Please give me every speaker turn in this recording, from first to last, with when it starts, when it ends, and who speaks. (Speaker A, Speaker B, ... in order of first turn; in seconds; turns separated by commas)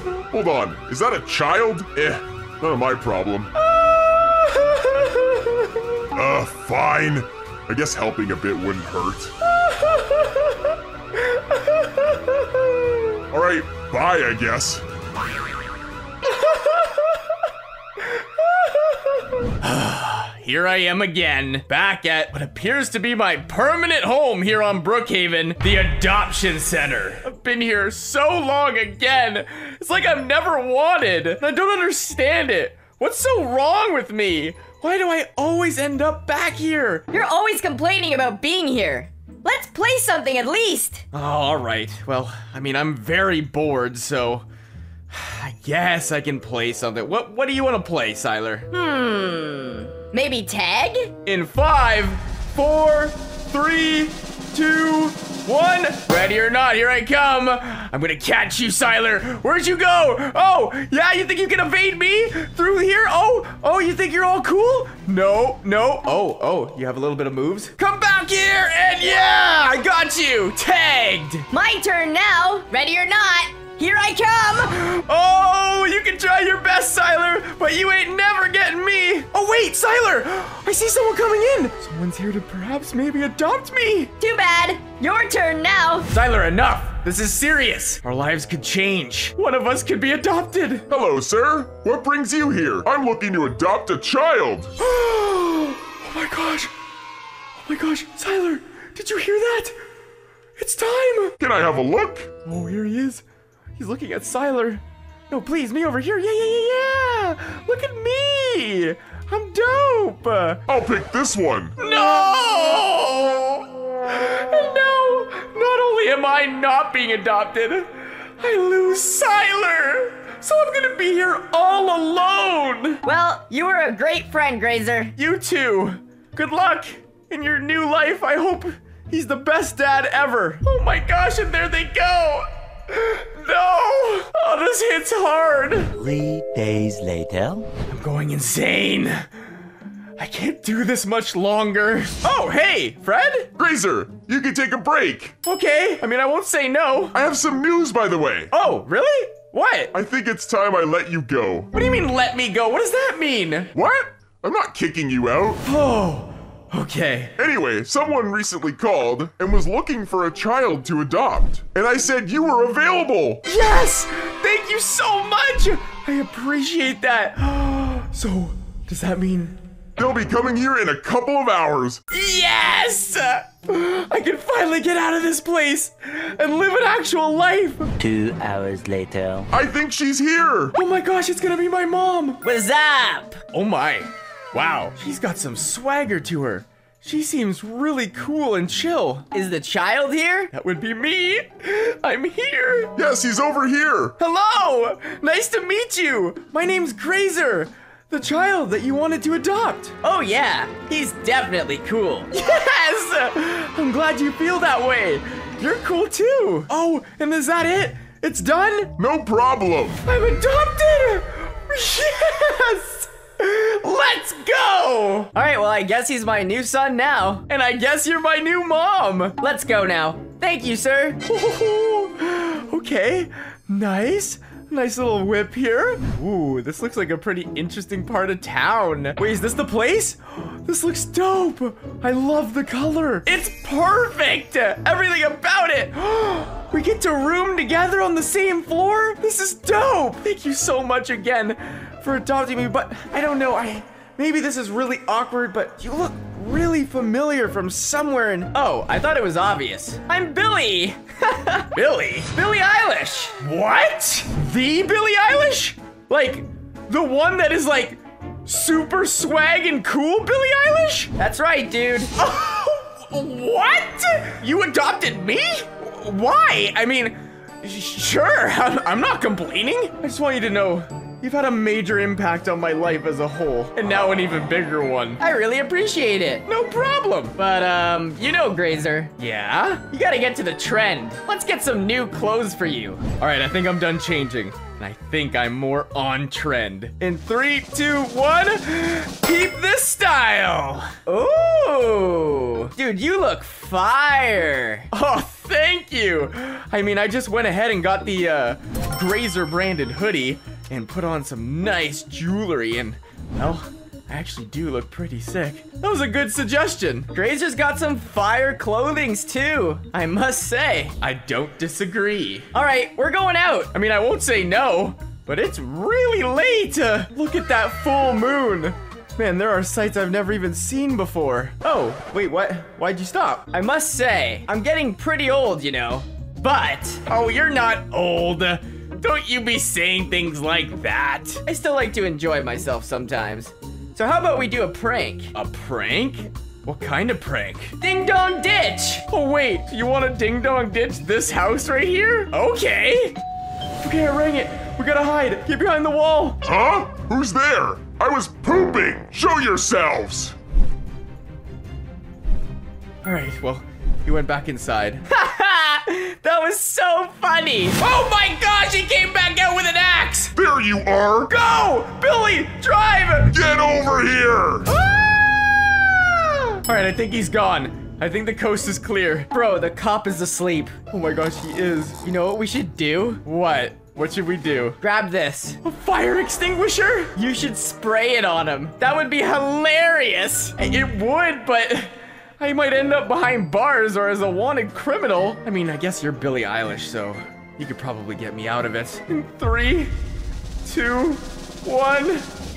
Speaker A: 0.3-3.5, Speaker B: 3.6-5.7, Speaker A: 6.1-9.3, Speaker A: 13.3-14.8, Speaker B: 19.6-37.1, Speaker C: 37.1-41.0, Speaker B: 41.1-44.4, Speaker B: 45.1-48.7, Speaker C: 48.7-51.1, Speaker B: 51.2-71.5, Speaker C: 71.5-74.8, Speaker B: 74.7-84.1, Speaker C: 84.2-86.1, Speaker B: 86.1-90.8, Speaker A: 90.9-94.7, Speaker B: 94.8-96.7, Speaker B: 97.6-99.8, Speaker B: 100.6-101.4, Speaker A: 101.4-102.3, Speaker B: 102.4-103.2, Speaker B: 103.8-110.6, Speaker A: 110.7-111.8, Speaker B: 111.8-123.0, Speaker C: 123.0-125.1, Speaker B: 125.2-135.9, Speaker D: 136.0-137.7, Speaker B: 137.9-139.2, Speaker B: 140.2-143.5, Speaker A: 143.6-145.3, Speaker B: 145.4-147.2, Speaker A: 147.1-148.5, Speaker B: 148.5-149.9, Speaker A: 149.9-151.7, Speaker B: 151.7-153.7, Speaker A: 153.7-155.6, Speaker B: 155.6-157.3, Speaker A: 157.4-163.4, Speaker B: 163.4-169.6, Speaker A: 170.0-172.0, Speaker B: 172.1-177.9, Speaker D: 178.0-179.5, Speaker A: 179.5-180.7, Speaker B: 180.7-182.4, Speaker C: 182.4-183.4, Speaker B: 183.5-189.3, Speaker C: 189.3-190.5, Speaker B: 190.5-192.9, Speaker A: 192.9-194.1, Speaker B: 194.2-200.0, Speaker C: 200.0-202.3, Speaker B: 202.3-208.9, Speaker A: 209.0-210.0, Speaker B: 210.0-215.3, Speaker C: 215.3-217.4, Speaker B: 217.5-219.4, Speaker C: 219.4-221.2, Speaker B: 221.2-251.0, Speaker C: 251.2-251.5, Speaker B: 251.5-252.4, Speaker C: 252.4-253.3, Speaker B: 253.2-261.1, Speaker C: 261.1-262.1, Speaker B: 262.1-275.2, Speaker C: 275.2-276.4, Speaker B: 276.4-277.4, Speaker C: 277.4-279.1, Speaker B: 279.1-280.0, Speaker C: 279.9-283.0, Speaker B: 283.0-291.0, Speaker C: 291.1-294.9, Speaker B: 294.9-307.1, Speaker C: 307.1-310.8, Speaker B: 310.8-312.6, Speaker C: 312.6-313.7, Speaker B: 313.7-323.6, Speaker C: 323.5-327.0, Speaker B: 327.0-331.5, Speaker C: 331.5-335.3, Speaker B: 335.3-337.8, Speaker C: 337.8-339.0, Speaker B: 339.1-343.1, Speaker B: 343.8-346.4, Speaker A: 346.4-350.3, Speaker B: 353.0-355.1, Speaker C: 355.1-358.2, Speaker B: 357.9-359.1, Speaker C: 359.0-360.1, Speaker A: 360.3-361.3, Speaker B: 361.3-363.3, Speaker A: 363.3-364.7, Speaker B: 366.5-369.3, Speaker C: 369.3-370.8, Speaker B: 370.8-372.0, Speaker C: 372.0-373.2, Speaker B: 373.2-374.8, Speaker C: 374.8-375.6, Speaker B: 375.6-377.1, Speaker C: 377.2-380.5, Speaker B: 380.5-389.9, Speaker B: 390.6-392.3